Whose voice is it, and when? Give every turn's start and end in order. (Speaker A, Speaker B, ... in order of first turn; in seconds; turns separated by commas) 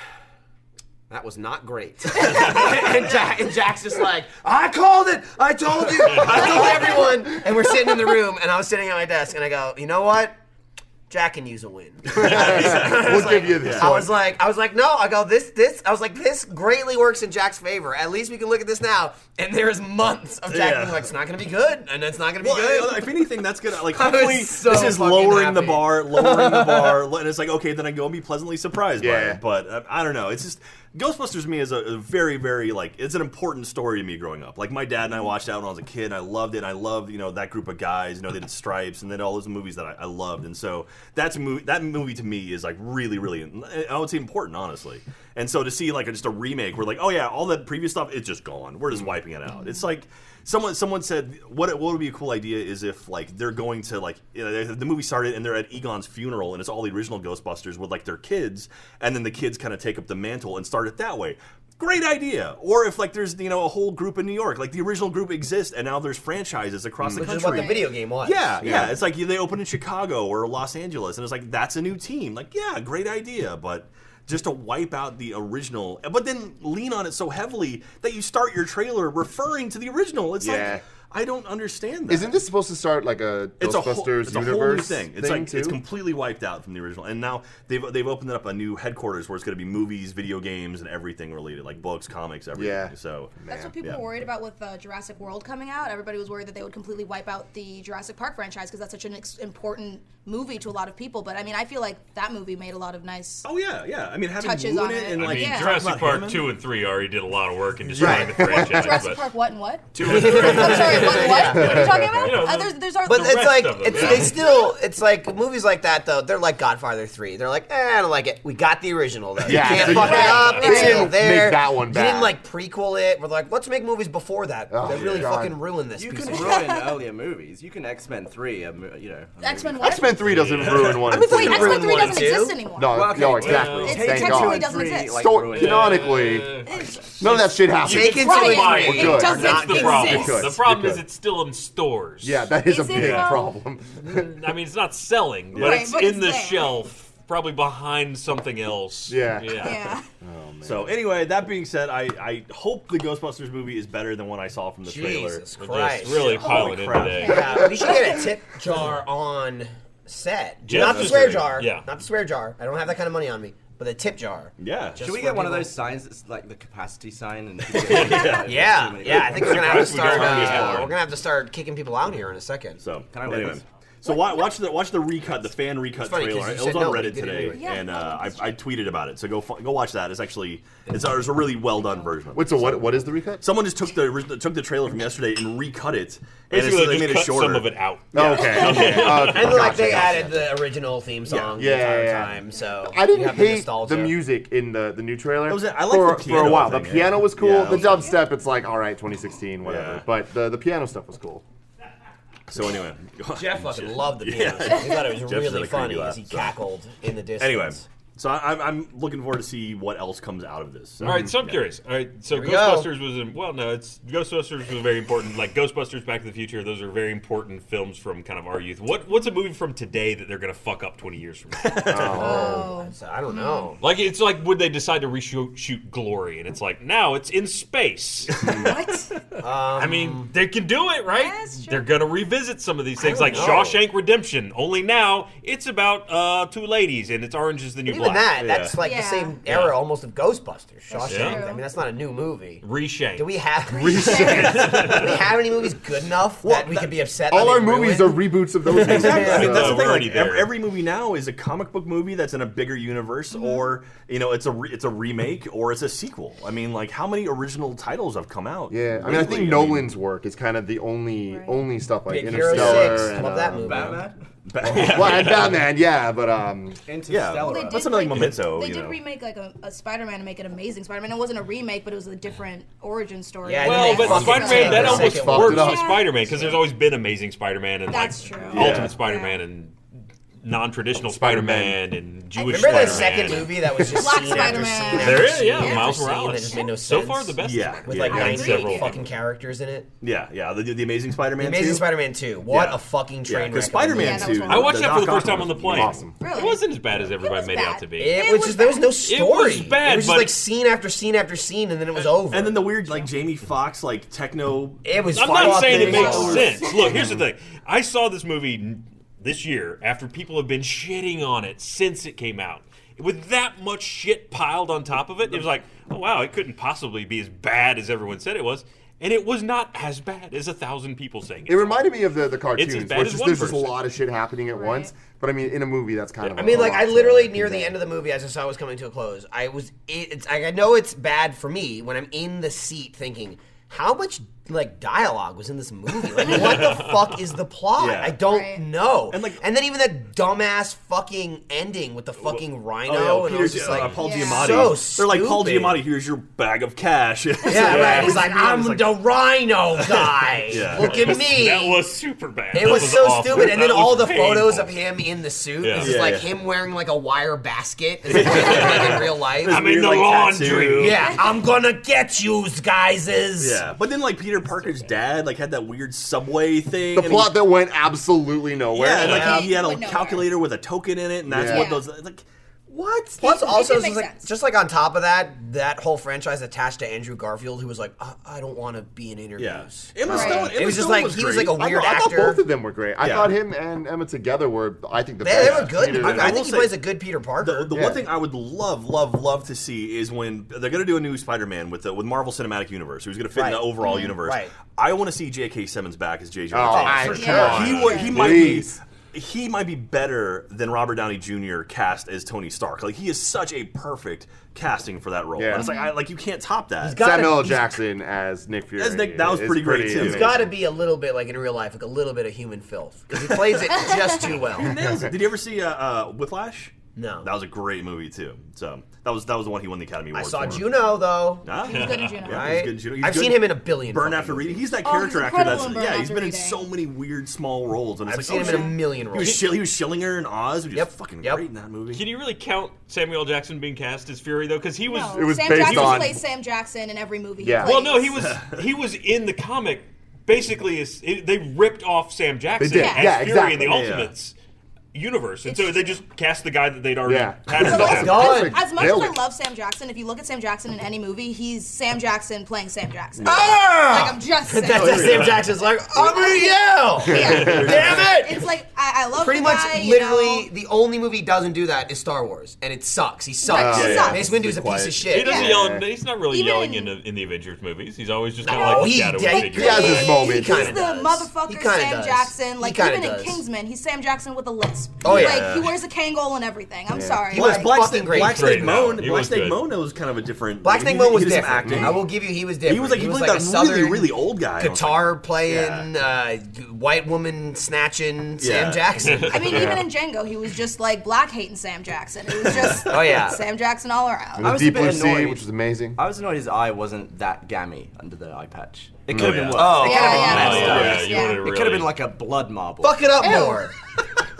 Speaker A: 1.1-10.3, Speaker A: 11.1-23.1, Speaker B: 12.1-13.9, Speaker C: 12.1-14.2, Speaker B: 20.5-21.1, Speaker B: 22.4-82.3, Speaker A: 23.9-26.9, Speaker C: 29.0-29.4, Speaker D: 49.5-49.8, Speaker A: 67.2-68.8, Speaker D: 67.2-67.8, Speaker C: 68.6-69.0, Speaker C: 80.4-80.8, Speaker C: 82.1-85.8, Speaker B: 83.6-94.0, Speaker C: 92.5-93.7, Speaker D: 93.5-103.5, Speaker B: 103.4-106.5, Speaker D: 104.4-105.9, Speaker E: 105.1-109.2, Speaker C: 107.9-109.0, Speaker D: 108.0-114.7, Speaker E: 109.9-114.4, Speaker A: 110.0-111.8, Speaker B: 110.0-110.8, Speaker C: 111.5-112.4, Speaker A: 113.0-126.7, Speaker C: 119.4-122.3, Speaker E: 119.7-121.0, Speaker D: 119.7-121.1, Speaker B: 119.8-120.3, Speaker C: 124.7-125.6, Speaker F: 125.9-130.2, Speaker D: 126.3-126.9, Speaker D: 129.4-130.2, Speaker C: 129.8-131.9, Speaker E: 130.2-131.2, Speaker D: 131.0-133.1, Speaker A: 131.0-132.6, Speaker C: 132.7-136.6, Speaker F: 132.8-136.3, Speaker E: 133.3-134.1, Speaker D: 133.6-135.3, Speaker E: 135.5-142.4, Speaker D: 136.6-137.1, Speaker C: 137.2-141.0, Speaker A: 137.8-140.3, Speaker D: 137.9-140.6, Speaker C: 142.2-144.3, Speaker D: 142.6-143.5, Speaker B: 142.9-143.3, Speaker E: 144.0-149.8, Speaker B: 145.5-145.9, Speaker D: 145.6-146.8, Speaker C: 149.1-150.9, Speaker D: 149.6-150.1, Speaker B: 150.6-157.4, Speaker A: 154.8-156.4, Speaker E: 155.6-157.6, Speaker D: 157.1-158.2, Speaker A: 157.2-165.7, Speaker E: 160.7-161.9, Speaker B: 160.7-161.5, Speaker B: 164.6-165.0, Speaker F: 165.0-170.0, Speaker B: 167.7-170.9, Speaker E: 167.9-168.3, Speaker A: 168.4-172.8, Speaker E: 169.2-170.9, Speaker B: 172.8-190.5, Speaker F: 173.1-173.6, Speaker D: 174.0-174.5, Speaker A: 176.0-177.7, Speaker D: 177.5-178.6, Speaker C: 182.3-183.4, Speaker E: 186.5-189.7, Speaker C: 188.1-190.3, Speaker A: 189.0-194.2, Speaker B: 191.3-191.6, Speaker C: 191.6-201.4, Speaker B: 195.5-198.2, Speaker B: 199.6-200.0, Speaker B: 202.5-206.5, Speaker A: 203.3-207.8, Speaker B: 207.4-211.6, Speaker C: 211.0-211.3, Speaker E: 211.0-222.2, Speaker A: 212.3-212.9, Speaker B: 221.6-222.4, Speaker C: 221.9-222.7, Speaker A: 222.1-223.8, Speaker D: 222.2-223.7, Speaker E: 223.8-228.6, Speaker B: 228.4-228.7, Speaker C: 228.4-228.7, Speaker D: 228.6-229.1, Speaker A: 229.4-230.3, Speaker E: 229.8-238.4, Speaker D: 231.1-231.9, Speaker A: 233.0-233.8, Speaker B: 233.3-233.7, Speaker A: 237.9-242.6, Speaker B: 238.4-238.8, Speaker D: 238.8-239.4, Speaker E: 239.5-239.7, Speaker D: 240.9-241.6, Speaker E: 241.1-241.4, Speaker E: 242.6-243.3, Speaker A: 243.1-249.5, Speaker D: 243.8-244.8, Speaker E: 243.8-245.2, Speaker B: 244.0-245.2, Speaker B: 246.4-246.9, Speaker C: 247.3-249.9, Speaker B: 248.8-259.9, Speaker E: 248.9-250.5, Speaker D: 253.3-253.7, Speaker C: 258.7-264.0, Speaker D: 261.3-261.6, Speaker A: 262.1-264.0, Speaker B: 262.5-262.9, Speaker F: 263.5-264.2, Speaker B: 264.5-265.6, Speaker C: 264.6-266.8, Speaker E: 264.7-265.5, Speaker F: 266.9-268.0, Speaker B: 267.1-269.0, Speaker D: 267.4-276.2, Speaker A: 273.4-275.7, Speaker E: 273.6-279.7, Speaker C: 274.0-276.5, Speaker D: 277.9-279.4, Speaker B: 278.5-278.9, Speaker C: 278.6-278.9, Speaker E: 280.4-283.6, Speaker C: 281.0-281.8, Speaker D: 282.4-286.7, Speaker A: 282.4-289.9, Speaker B: 282.9-283.4, Speaker B: 284.4-284.6, Speaker E: 284.9-289.1, Speaker B: 287.4-288.8, Speaker D: 288.1-288.9, Speaker B: 290.0-291.9, Speaker A: 291.4-294.5, Speaker B: 292.5-296.0, Speaker D: 293.9-295.0, Speaker E: 294.5-298.2, Speaker C: 295.5-296.2, Speaker D: 296.2-298.9, Speaker A: 298.0-302.6, Speaker E: 299.0-300.4, Speaker B: 302.3-306.9, Speaker A: 304.8-306.7, Speaker E: 305.1-321.8, Speaker D: 305.7-306.9, Speaker C: 306.9-307.2, Speaker C: 321.5-327.8, Speaker E: 322.5-323.8, Speaker D: 324.5-324.9, Speaker A: 326.4-345.8, Speaker B: 337.8-338.2, Speaker D: 338.2-338.6, Speaker B: 339.1-339.4, Speaker B: 342.3-349.0, Speaker D: 343.8-344.8, Speaker A: 347.4-351.8, Speaker D: 347.6-348.2, Speaker C: 347.7-348.1, Speaker B: 349.8-351.3, Speaker E: 350.8-354.7, Speaker A: 352.5-359.7, Speaker E: 355.6-356.0, Speaker B: 355.8-356.3, Speaker B: 358.1-361.1, Speaker E: 358.3-361.1, Speaker A: 360.7-363.6, Speaker B: 363.4-367.4, Speaker C: 366.9-369.5, Speaker B: 368.7-372.2, Speaker A: 369.0-369.5, Speaker D: 369.0-370.3, Speaker C: 371.2-371.7, Speaker D: 371.4-371.8, Speaker A: 372.7-382.4, Speaker D: 373.2-374.3, Speaker B: 379.4-382.1, Speaker D: 380.0-380.6, Speaker C: 380.1-380.3, Speaker C: 381.6-386.4, Speaker B: 383.0-383.3, Speaker A: 385.2-387.7, Speaker B: 385.3-386.8, Speaker B: 387.4-407.0, Speaker C: 387.7-388.1, Speaker A: 393.3-394.5, Speaker D: 393.8-394.1, Speaker C: 396.5-398.8, Speaker A: 396.6-397.7, Speaker D: 397.0-398.4, Speaker E: 398.1-398.6, Speaker C: 405.4-405.7, Speaker D: 405.5-405.9, Speaker A: 406.8-407.8, Speaker C: 406.9-410.5, Speaker B: 408.8-410.5, Speaker A: 409.9-414.8, Speaker B: 413.2-420.7, Speaker C: 414.7-415.1, Speaker A: 416.9-417.3, Speaker A: 420.1-421.5, Speaker B: 421.4-432.0, Speaker D: 421.6-422.6, Speaker E: 421.7-422.2, Speaker A: 422.2-424.8, Speaker D: 424.8-426.7, Speaker A: 428.1-429.5, Speaker D: 428.3-428.8, Speaker A: 430.7-431.4, Speaker E: 431.9-436.1, Speaker D: 434.8-438.3, Speaker C: 435.1-436.2, Speaker C: 437.4-437.8, Speaker E: 437.6-444.3, Speaker B: 438.2-438.6, Speaker C: 442.6-443.9, Speaker D: 442.7-443.2, Speaker B: 443.6-444.1, Speaker E: 444.9-448.3, Speaker D: 445.5-446.0, Speaker C: 447.0-449.2, Speaker D: 447.6-460.5, Speaker A: 447.7-448.6, Speaker B: 453.2-453.5, Speaker A: 453.2-458.5, Speaker B: 454.7-455.4, Speaker B: 457.1-458.1, Speaker C: 457.1-457.8, Speaker A: 459.2-465.5, Speaker D: 463.4-464.4, Speaker C: 463.5-465.9, Speaker B: 463.7-464.9, Speaker E: 465.1-470.1, Speaker D: 465.1-465.5, Speaker D: 466.3-466.9, Speaker A: 468.4-473.4, Speaker D: 468.5-477.8, Speaker C: 469.5-470.8, Speaker A: 475.0-475.6, Speaker B: 475.0-475.8, Speaker C: 476.9-477.3, Speaker A: 477.3-479.0, Speaker B: 477.3-482.1, Speaker E: 478.1-479.7, Speaker A: 480.6-489.7, Speaker C: 481.6-482.0, Speaker B: 482.6-485.9, Speaker B: 488.4-489.7, Speaker E: 489.0-489.5, Speaker D: 489.1-494.6, Speaker C: 489.5-489.9, Speaker B: 492.5-492.9, Speaker A: 492.8-493.4, Speaker C: 494.4-496.0, Speaker F: 494.4-503.1, Speaker C: 499.1-499.5, Speaker B: 499.1-501.2, Speaker A: 499.5-500.9, Speaker D: 499.7-501.4, Speaker E: 499.9-502.0, Speaker A: 502.8-503.7, Speaker D: 503.2-503.7